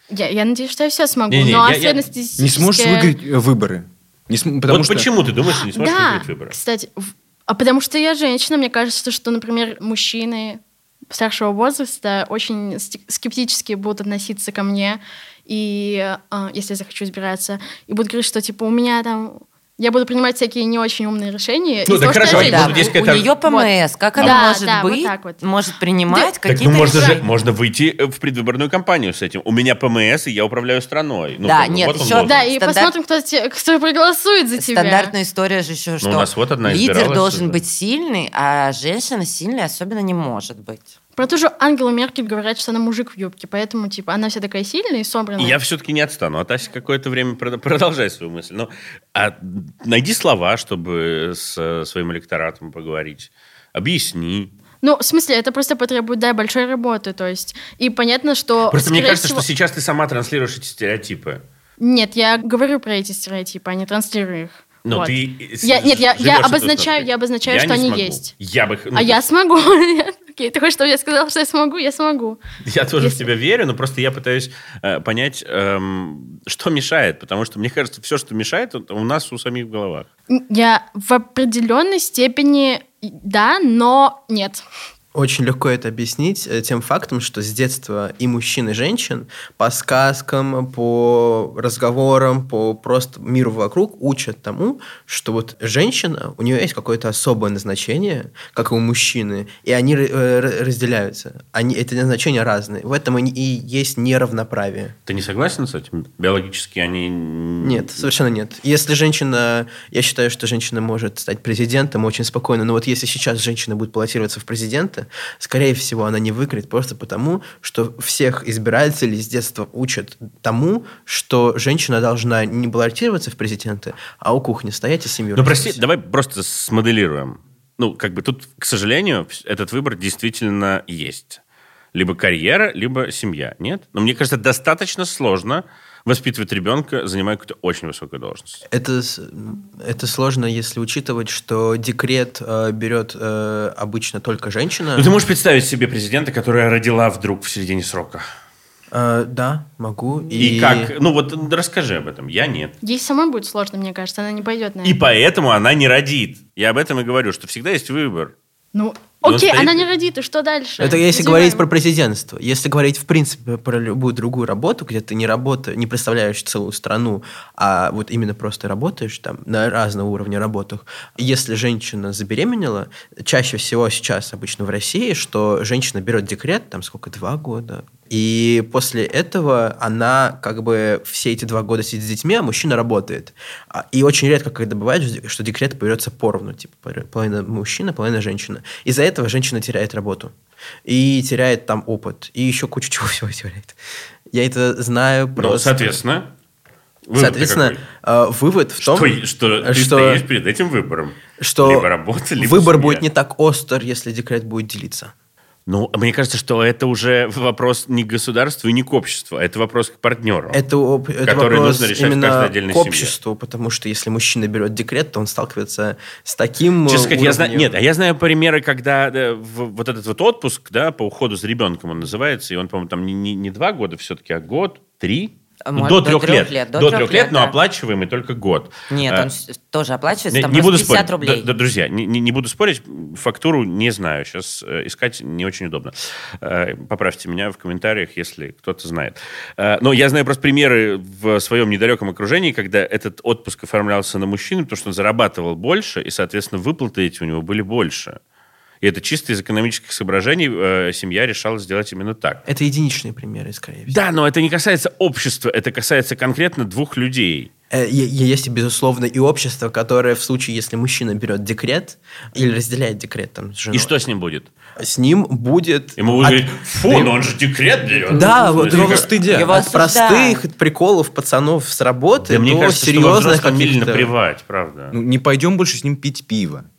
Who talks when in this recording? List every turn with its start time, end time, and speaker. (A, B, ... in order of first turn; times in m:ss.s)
0:00.1-0:03.1 A
0:01.3-0:02.0 B
0:02.4-0:05.1 C
0:04.7-0:06.5 B
0:05.6-0:25.4 A
0:21.8-0:23.3 B
0:22.2-0:27.2 D
0:26.1-0:27.2 A
0:26.4-0:32.4 B
0:31.4-0:32.9 D
0:32.2-0:35.1 A
0:34.6-0:40.9 D
0:36.0-0:37.6 B
0:41.2-0:45.6 A
0:45.4-0:54.5 B
0:54.8-0:59.4 A
0:58.7-1:01.4 B
1:01.8-1:08.3 A
1:04.8-1:09.2 B
1:08.9-1:12.4 A
1:12.6-1:20.1 B
1:13.0-1:13.3 A
1:20.3-1:24.6 A
1:25.1-1:45.0 E
1:45.1-1:48.0 B
1:47.6-2:05.8 E
2:05.3-2:11.4 B
2:11.9-2:18.6 B
2:18.7-2:25.1 E
2:24.9-2:28.2 B
2:28.9-2:30.9 E
2:30.4-2:32.7 B
2:32.8-2:35.0 A
2:34.8-2:38.3 B
2:38.7-2:41.6 A
2:39.2-2:39.8 B
2:40.8-3:10.3 E
3:10.8-3:13.8 E
3:14.3-3:16.0 E
3:15.4-3:16.3 B
3:17.1-3:17.8 B
3:17.2-3:20.2 E
3:18.8-3:23.0 B
3:21.4-3:25.1 E
3:25.7-3:30.6 B
3:30.5-3:37.8 E
3:31.2-3:33.1 B
3:36.8-3:49.3 B
3:45.6-3:47.6 D
3:48.9-3:51.5 D
3:50.3-4:08.2 B
4:08.8-4:12.4 B
4:12.5-4:14.0 E
4:13.9-4:17.5 B
4:17.7-4:23.9 E
4:23.7-4:24.5 B
4:24.8-4:27.1 E
4:26.0-4:29.1 B
4:28.1-4:29.5 C
4:28.1-4:34.1 E
4:28.7-4:30.4 D
4:32.2-4:34.9 B
4:34.9-4:36.7 C